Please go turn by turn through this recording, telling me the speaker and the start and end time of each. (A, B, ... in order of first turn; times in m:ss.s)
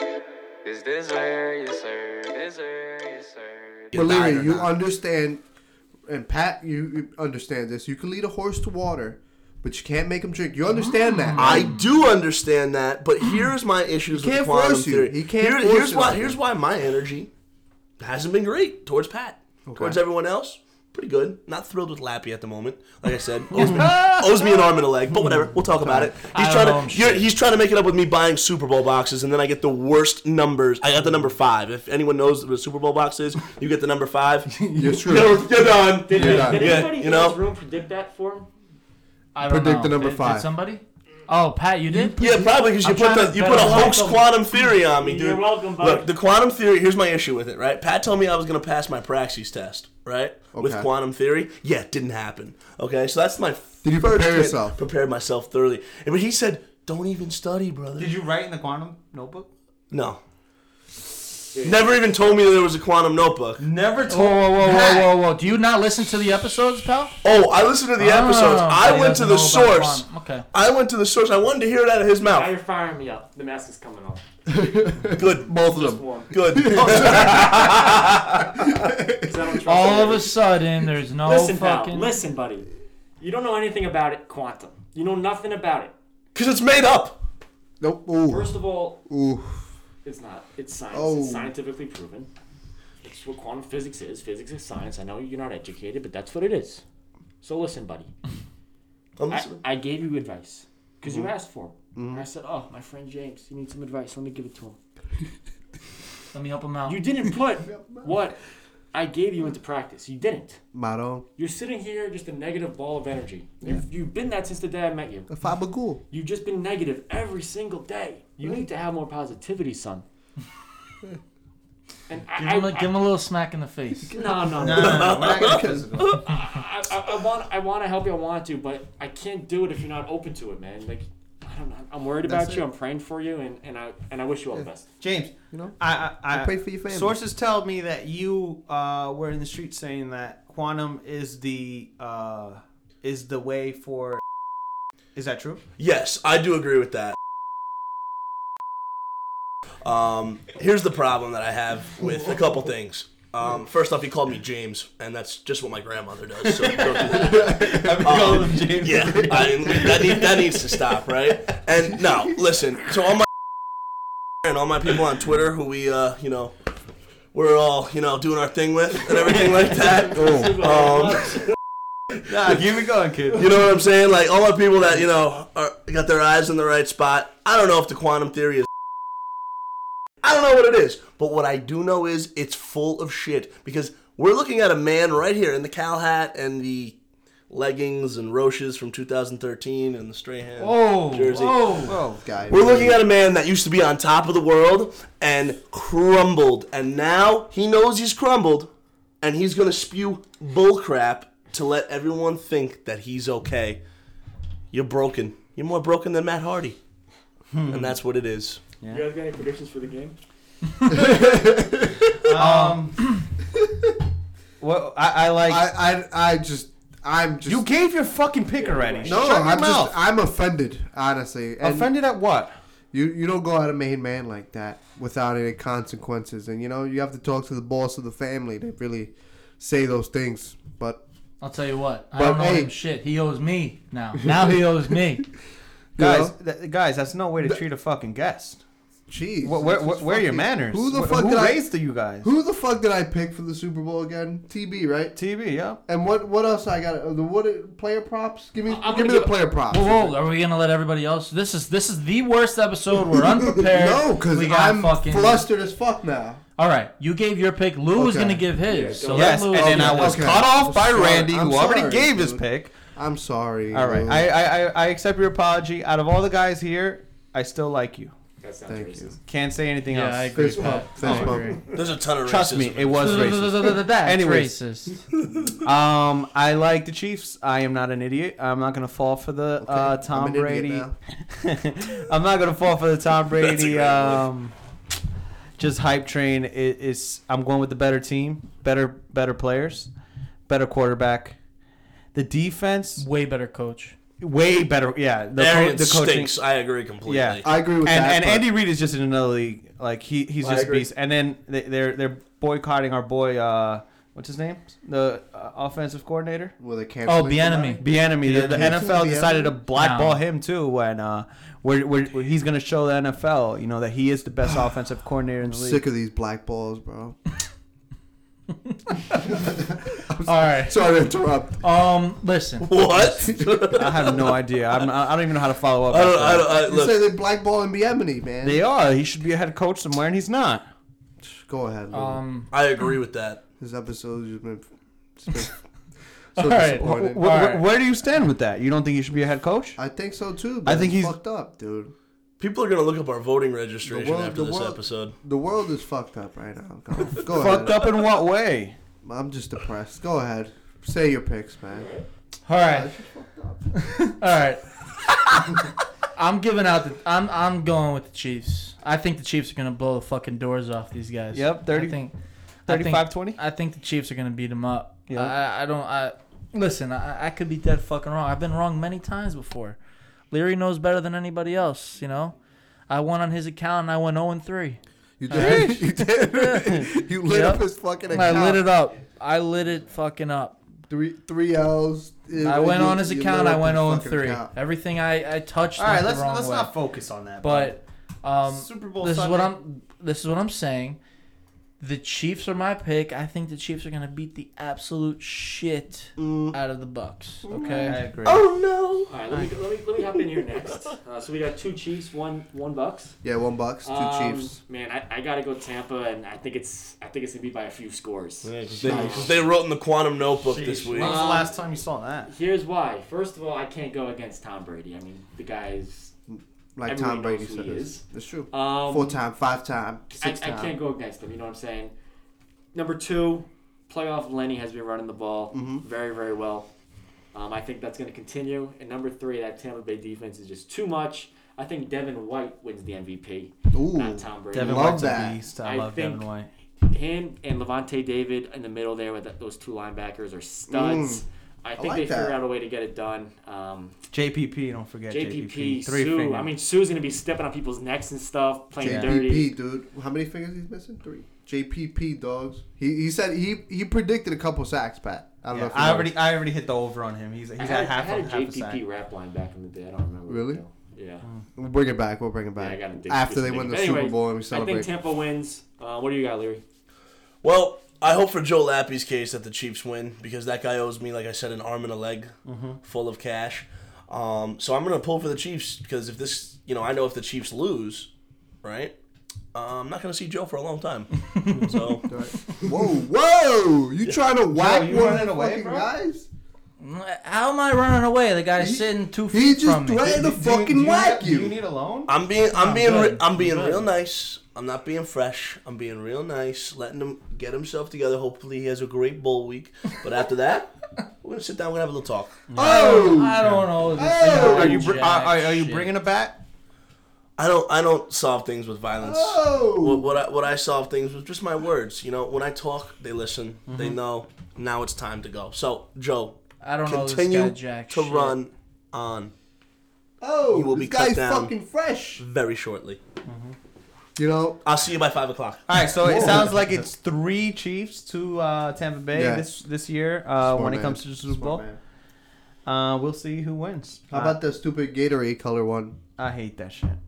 0:00.6-0:03.9 A
0:03.9-0:04.8 B
0:03.9-0:05.4 C
0:06.1-0:11.7 C
0:10.7-0:11.9 D
0:11.4-0:17.3 B
0:14.1-0:16.4 C
0:18.0-0:37.4 B
0:19.6-0:20.0 C
0:23.5-0:24.0 E
0:25.8-0:26.1 C
0:26.2-0:27.2 D
0:34.7-0:35.4 C
0:35.9-0:38.5 F
0:36.1-0:36.8 C
0:39.3-0:42.2 D
0:39.4-0:40.5 C
0:41.9-0:42.5 C
0:42.2-0:58.1 B
0:43.0-0:44.1 D
0:43.3-0:46.1 F
0:50.5-0:50.9 C
0:53.8-0:54.8 C
0:58.0-0:59.5 E
0:59.9-1:00.2 B
1:01.5-1:01.9 F
1:01.6-1:03.6 B
1:03.6-1:05.1 E
1:04.1-1:07.2 D
1:07.2-1:12.5 B
1:08.0-1:10.4 D
1:12.2-1:14.2 F
1:14.5-1:19.5 C
1:15.2-1:18.2 B
1:15.5-1:18.1 F
1:19.2-1:20.4 F
1:19.6-1:22.1 D
1:21.2-1:22.7 F
1:23.2-1:25.9 F
1:26.3-1:27.2 B
1:27.8-1:29.6 C
1:28.2-1:29.0 F
1:30.0-1:32.3 F
1:30.9-1:31.5 C
1:33.0-1:36.8 F
1:37.4-1:38.1 F
1:39.2-1:39.6 B
1:39.3-1:44.8 F
1:42.0-1:42.3 C
1:46.3-1:47.0 D
1:46.8-1:48.4 F
1:47.6-1:48.2 C
1:48.9-1:50.6 F
1:50.7-1:51.2 C
1:51.4-1:55.3 F
1:55.3-1:56.0 C
1:56.1-2:00.0 F
2:02.1-2:03.0 F
2:02.4-2:04.1 D
2:04.1-2:05.3 F
2:04.2-2:05.9 C
2:04.6-2:06.1 E
2:04.6-2:06.3 B
2:06.1-2:14.9 F
2:12.2-2:12.6 C
2:15.0-2:24.2 E
2:15.5-2:17.2 C
2:25.1-2:25.6 E
2:25.8-2:27.2 B
2:29.8-2:43.2 B
2:36.4-2:41.5 E
2:37.6-2:38.1 C
2:44.4-2:46.5 B
2:47.3-2:51.4 B
2:49.7-2:51.4 F
2:50.1-2:50.5 C
2:52.2-2:53.6 E
2:53.3-2:58.7 B
3:00.2-3:07.0 B
3:07.5-3:11.9 B
3:10.6-3:12.0 D
3:11.8-3:12.2 E
3:12.2-3:13.0 C
3:12.5-3:18.7 B
3:19.2-3:23.8 B
3:24.7-3:26.8 B
3:27.5-3:28.0 E
3:27.7-3:28.6 B
3:28.8-3:29.1 E
3:28.8-3:30.2 F
3:30.9-3:32.3 C
3:32.2-3:33.1 E
3:32.4-3:33.2 D
3:33.6-3:33.9 C
3:34.6-3:35.7 E
3:35.4-3:37.6 C
3:37.4-3:40.0 E
3:38.6-3:39.4 F
3:39.0-3:41.9 C
3:41.6-3:42.5 E
3:42.9-3:51.0 C
3:51.4-3:55.3 D
3:52.1-3:52.7 C
3:56.0-3:56.3 C
3:56.0-3:58.6 E
3:59.1-4:01.7 C
3:59.4-4:02.3 E
4:02.2-4:05.2 C
4:05.2-4:05.8 E
4:05.8-4:10.2 C
4:08.6-4:09.4 F
4:09.7-4:15.5 D
4:13.4-4:16.4 C
4:16.6-4:20.3 D
4:18.0-4:18.4 C
4:18.6-4:19.6 F
4:19.1-4:22.8 E
4:19.5-4:24.3 C
4:23.7-4:28.1 E
4:28.4-4:29.1 F
4:28.7-4:29.1 C
4:29.2-4:31.5 E
4:29.9-4:31.6 D
4:30.3-4:31.7 C
4:31.7-4:33.3 B
4:32.2-4:34.5 E
4:33.0-4:35.0 D
4:35.6-4:44.5 E
4:39.6-4:40.9 C
4:43.4-4:44.2 B
4:45.6-4:49.9 E
4:50.5-4:51.4 E
4:52.1-4:53.0 E
4:53.0-4:53.9 D
4:54.2-4:56.3 E
4:55.4-4:57.4 B
4:57.0-5:06.5 E
4:57.4-4:58.5 C
5:00.4-5:00.9 B
5:06.6-5:09.6 C
5:07.0-5:07.8 D
5:07.8-5:15.8 E
5:09.8-5:10.2 D
5:15.4-5:17.2 C
5:18.7-5:19.4 D
5:19.2-5:21.6 C
5:20.2-5:20.9 D
5:21.6-5:23.3 D
5:22.6-5:24.3 B
5:23.2-5:23.8 C
5:23.8-5:26.5 E
5:25.9-5:27.1 B
5:26.5-5:28.6 C
5:28.4-5:30.6 E
5:31.2-5:32.2 C
5:31.9-5:32.5 D
5:32.5-5:33.4 B
5:33.6-5:34.6 C
5:35.2-5:35.6 C
5:36.3-5:37.2 C
5:36.4-5:37.6 D
5:36.8-5:39.8 E
5:39.8-5:41.9 C
5:40.6-5:41.2 E
5:42.4-5:45.2 B
5:43.8-5:47.9 C
5:47.2-5:48.8 E
5:49.0-5:51.9 C
5:51.7-5:52.0 F
5:52.4-5:52.9 D
5:52.6-5:53.9 C
5:53.8-5:55.5 D
5:56.2-6:02.1 D
6:01.3-6:02.0 E
6:02.6-6:09.8 D
6:02.7-6:03.4 E
6:05.1-6:05.3 E
6:10.3-6:12.3 D
6:12.9-6:20.6 D
6:15.2-6:18.6 C
6:15.3-6:15.8 E
6:20.9-6:24.5 C
6:22.4-6:26.7 D
6:25.8-6:27.8 E
6:27.4-6:31.0 D
6:28.4-6:29.5 E
6:31.8-6:38.0 D
6:36.2-6:36.5 B
6:37.5-6:38.4 E
6:37.6-6:37.9 C
6:38.2-6:39.1 B
6:39.1-6:43.2 F
6:43.2-6:44.6 C
6:43.8-6:49.4 F
6:48.4-6:51.4 B
6:48.8-6:49.3 C
6:50.4-6:52.3 E
6:51.0-6:51.5 F
6:52.2-6:56.1 F
6:56.3-7:00.8 C
6:56.8-6:59.2 F
7:00.1-7:01.9 F
7:02.7-7:06.7 F
7:05.5-7:05.8 C
7:07.3-7:16.2 F
7:13.7-7:15.4 C
7:14.5-7:16.5 E
7:16.8-7:23.9 F
7:20.7-7:21.2 C
7:21.8-7:22.4 C
7:24.1-7:26.5 E
7:25.1-7:29.5 F
7:28.8-7:36.2 C
7:28.8-7:29.2 E
7:35.5-7:38.8 E
7:37.6-7:41.2 F
7:40.3-7:40.6 C
7:41.6-7:44.9 C
7:42.6-7:46.6 F
7:47.4-7:58.1 B
7:52.4-7:52.8 E
7:58.6-7:58.9 B
7:59.5-8:02.1 B
8:01.3-8:01.7 D
8:01.5-8:02.0 E
8:02.1-8:06.3 C
8:04.5-8:05.9 E
8:06.8-8:10.2 D
8:08.6-8:11.5 C
8:10.0-8:12.1 E
8:12.1-8:22.5 B
8:12.5-8:13.8 D
8:22.5-8:26.4 E
8:22.5-8:23.4 C
8:22.6-8:25.9 D
8:24.0-8:25.0 C
8:27.4-8:39.3 B
8:29.0-8:30.1 C
8:33.7-8:34.0 E
8:36.6-8:38.4 D
8:40.2-8:42.2 C
8:40.5-8:41.5 B
8:42.2-8:43.0 B
8:43.2-8:43.6 E
8:44.2-8:44.6 C
8:44.6-8:45.6 B
8:45.7-8:51.6 E
8:46.0-8:46.6 C
8:49.1-8:49.4 C
8:50.4-8:51.8 C
8:52.6-8:54.4 E
8:54.1-8:56.0 C
8:56.2-8:57.0 E